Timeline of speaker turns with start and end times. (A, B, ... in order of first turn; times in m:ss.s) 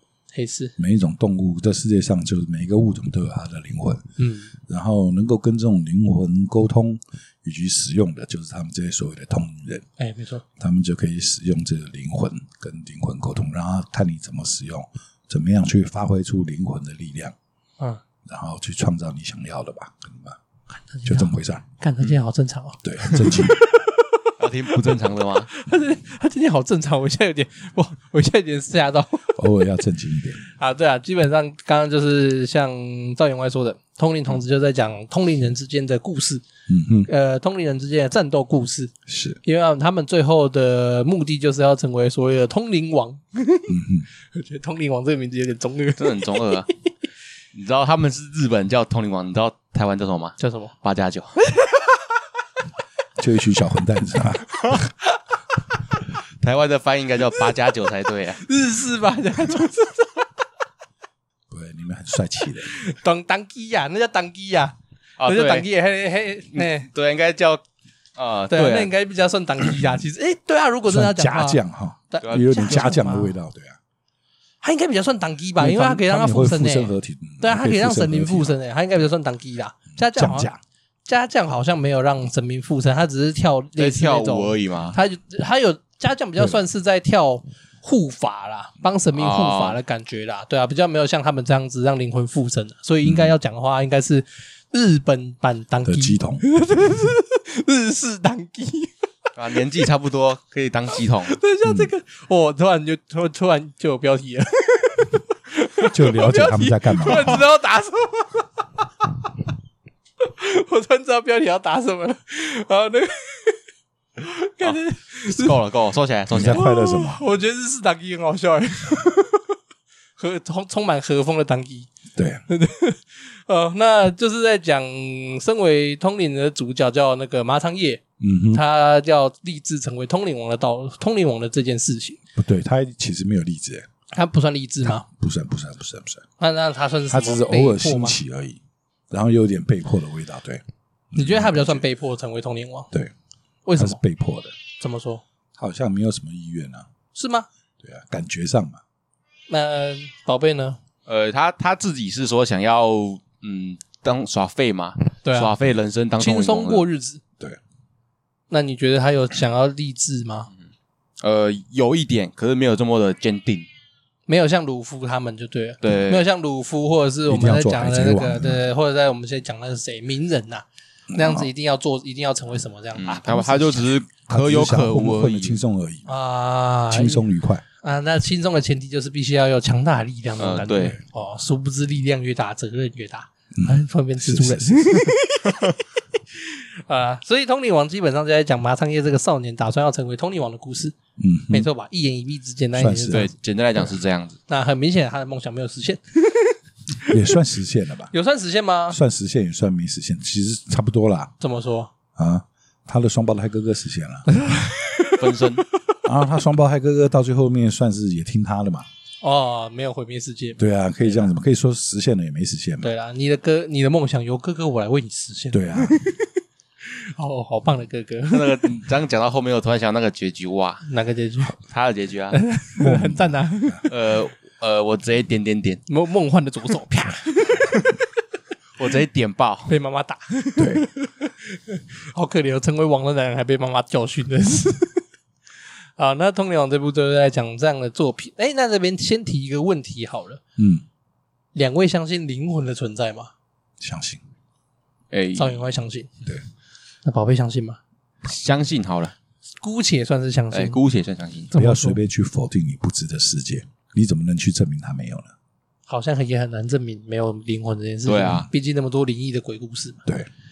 0:00.3-0:00.7 A
0:00.8-0:04.0 B
0:04.2-0:04.5 A
0:04.6-0:09.8 B
0:10.0-0:10.4 A
0:10.6-0:17.3 B
0:18.2-0:20.4 B
0:20.9-0:23.6 A
0:21.0-0:21.6 B
0:22.8-0:23.6 B
0:24.4-0:25.5 C
0:25.5-0:29.4 A
0:29.3-0:30.4 B
0:30.6-0:36.4 A
0:36.7-0:37.1 B
0:37.0-0:38.9 A
0:39.1-0:39.4 B
0:39.4-0:43.8 A
0:43.7-0:44.1 B
0:44.3-0:46.7 A
0:46.0-0:46.7 C
0:47.5-0:51.4 C
0:50.4-0:50.7 A
0:51.4-0:51.9 A
0:53.2-0:54.8 B
0:56.4-0:58.4 C
0:58.4-1:00.2 A
1:01.5-1:02.7 B
1:02.6-1:06.9 A
1:05.2-1:05.6 C
1:06.5-1:07.6 C
1:08.2-1:08.9 C
1:08.5-1:11.6 A
1:10.9-1:13.8 B
1:12.1-1:13.3 A
1:14.6-1:20.5 A
1:15.6-1:18.5 B
1:20.0-1:20.6 B
1:21.1-1:38.9 A
1:23.8-1:25.0 C
1:29.1-1:29.8 C
1:33.0-1:33.3 B
1:35.8-1:36.4 B
1:39.4-1:41.4 C
1:41.2-1:49.2 A
1:45.9-1:47.4 B
1:50.2-1:53.6 A
1:54.2-1:55.6 A
1:54.6-1:56.6 C
1:56.3-1:57.2 B
1:56.4-1:59.5 A
2:00.2-2:01.9 A
2:02.1-2:02.4 B
2:02.5-2:12.2 A
2:08.2-2:08.6 B
2:12.4-2:13.9 B
2:14.1-2:15.0 A
2:14.8-2:16.2 B
2:16.4-2:18.2 A
2:17.1-2:21.8 B
2:21.1-2:22.9 A
2:23.6-2:24.0 A
2:23.8-2:24.5 B
2:24.8-2:25.2 A
2:25.6-2:26.9 B
2:27.1-2:27.5 A
2:27.8-2:28.8 B
2:29.5-2:30.8 A
2:31.0-2:36.8 C
2:35.2-2:35.5 A
2:36.2-2:37.2 A
2:38.5-2:40.5 A
2:41.2-2:43.7 C
2:44.3-2:53.9 A
2:45.8-2:46.2 C
2:47.3-2:48.6 B
2:51.1-2:51.5 B
2:53.0-2:55.6 C
2:54.2-2:56.1 B
2:56.0-2:57.2 A
2:56.9-2:57.6 B
2:57.8-3:05.6 A
3:00.4-3:01.0 C
3:03.6-3:04.9 B
3:06.5-3:11.0 A
3:11.2-3:11.7 B
3:11.5-3:13.3 A
3:12.7-3:13.3 B
3:13.1-3:14.4 C
3:14.5-3:17.1 A
3:17.1-3:18.1 B
3:18.1-3:19.0 A
3:18.9-3:21.3 B
3:21.4-3:21.9 A
3:22.2-3:24.2 B
3:24.3-3:25.4 A
3:25.2-3:25.6 C
3:26.0-3:28.8 B
3:29.2-3:30.6 A
3:30.6-3:32.9 B
3:32.8-3:36.3 A
3:35.5-3:36.0 B
3:36.9-3:38.8 A
3:38.3-3:40.9 C
3:40.9-3:41.5 A
3:41.7-3:42.4 C
3:42.3-3:43.9 A
3:42.8-3:43.8 B
3:43.9-3:45.8 C
3:45.9-3:47.7 A
3:48.8-3:49.7 C
3:49.7-3:55.0 A
3:50.6-3:50.8 B
3:56.0-4:00.4 A
4:00.6-4:00.8 B
4:01.5-4:03.3 A
4:03.8-4:04.2 B
4:05.1-4:05.6 C
4:05.3-4:06.1 A
4:07.0-4:07.8 A
4:08.2-4:09.1 C
4:09.6-4:10.8 A
4:10.5-4:11.5 C
4:11.5-4:12.0 A
4:11.5-4:15.3 B
4:15.9-4:20.0 A
4:18.0-4:18.5 C